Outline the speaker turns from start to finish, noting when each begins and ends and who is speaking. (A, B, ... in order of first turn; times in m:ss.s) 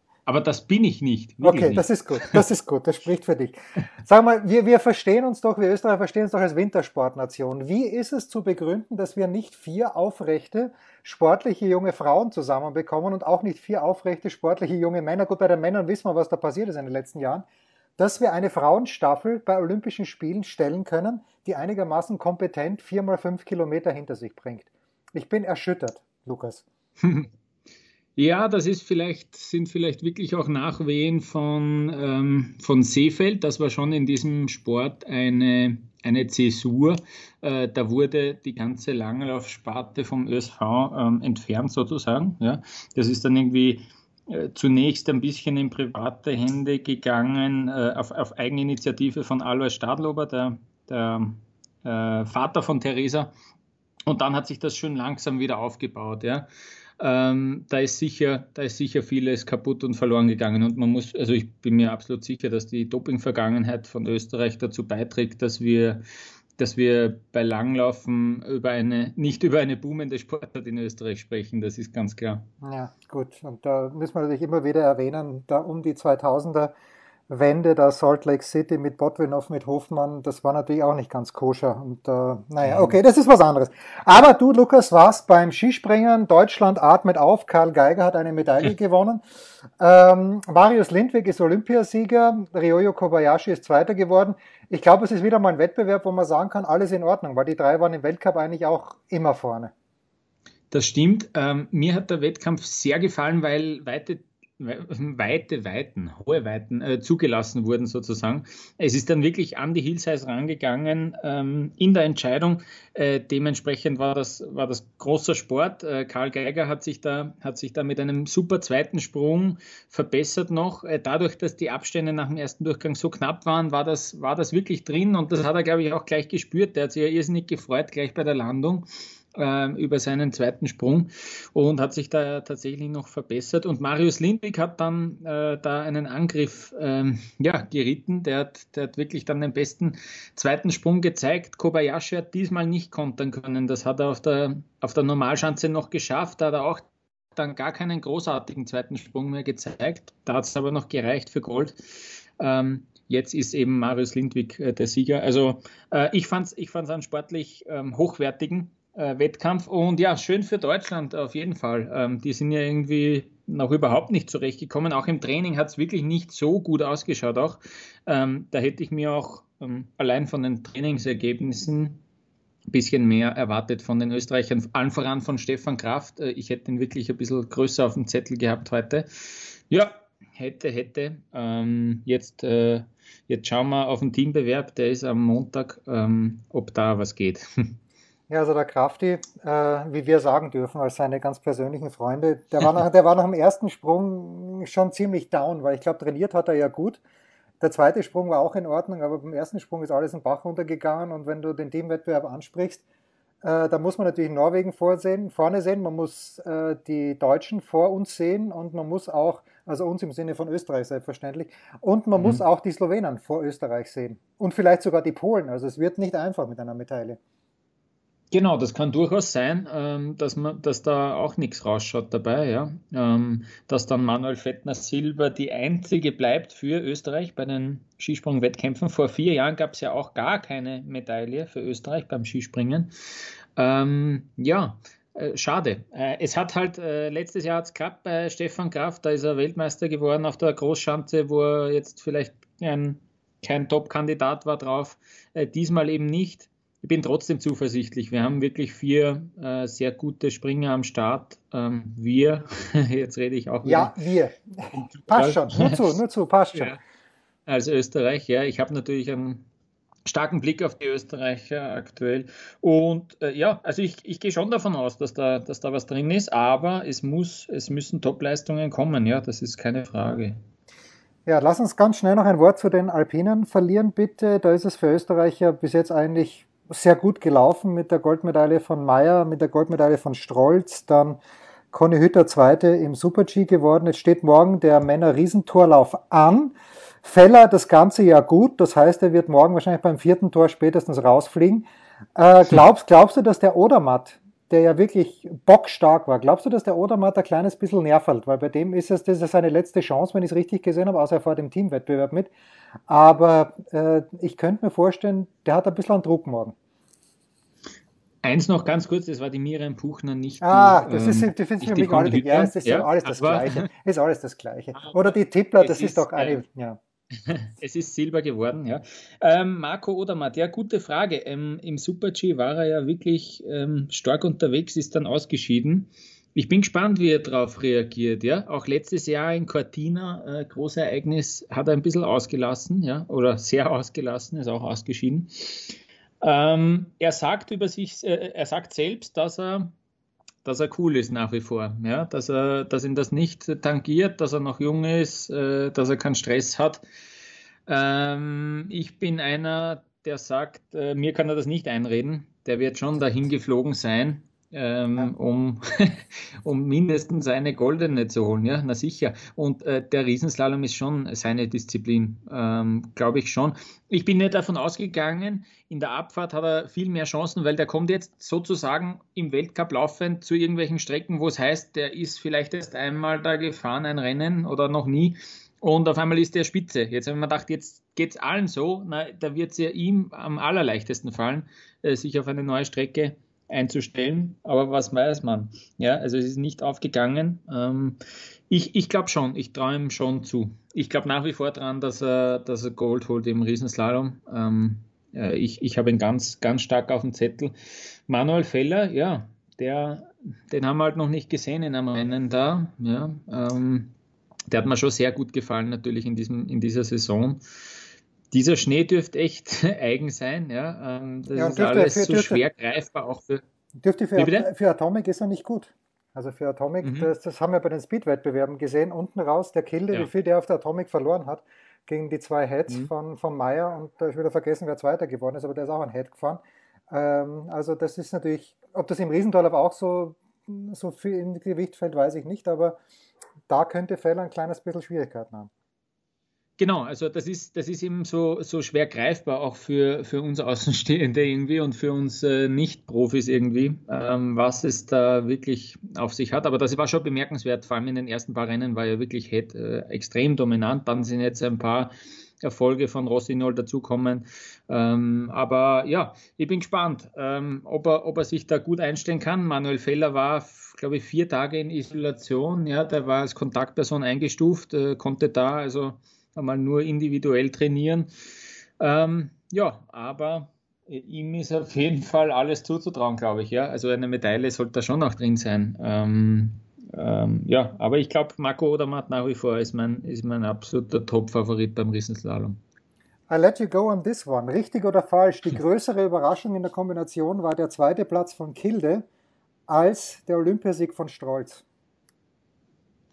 0:00.3-0:02.4 A
0:01.4-0:17.5 B
0:18.0-0:26.6 B
0:27.0-0:27.3 A
0:28.2-0:53.3 A
0:54.1-0:56.5 A
0:57.0-1:06.0 A
1:06.6-1:12.5 A
1:12.6-1:16.7 B
1:17.3-1:29.2 B
1:22.6-1:22.9 A
1:29.8-1:39.7 B
1:40.7-2:52.0 A
2:52.7-3:07.8 A
3:08.3-3:17.0 B
3:17.6-3:22.8 B
3:23.4-3:37.2 B
3:32.2-3:32.4 A
3:38.3-3:52.9 A
3:53.6-4:13.9 A
4:13.6-4:16.8 B
4:14.7-4:15.8 A
4:17.5-4:19.5 A
4:20.1-4:30.4 A
4:31.3-4:41.2 B
4:41.7-5:02.3 B
5:02.9-5:06.6 B
5:08.2-5:13.7 A
5:10.4-5:16.8 B
5:14.8-5:16.4 A
5:17.3-5:39.7 A
5:40.4-5:46.8 A
5:47.7-6:28.0 A
6:28.5-6:37.6 A
6:38.1-6:44.0 A
6:44.5-6:47.4 A
6:48.3-6:53.4 A
6:51.4-6:52.4 B
6:53.8-7:12.8 B
6:54.2-6:54.5 A
6:56.8-6:57.1 A
7:13.5-7:15.5 B
7:16.6-7:48.1 A
7:48.8-8:02.6 A
8:03.3-8:09.1 B
8:09.7-8:11.6 B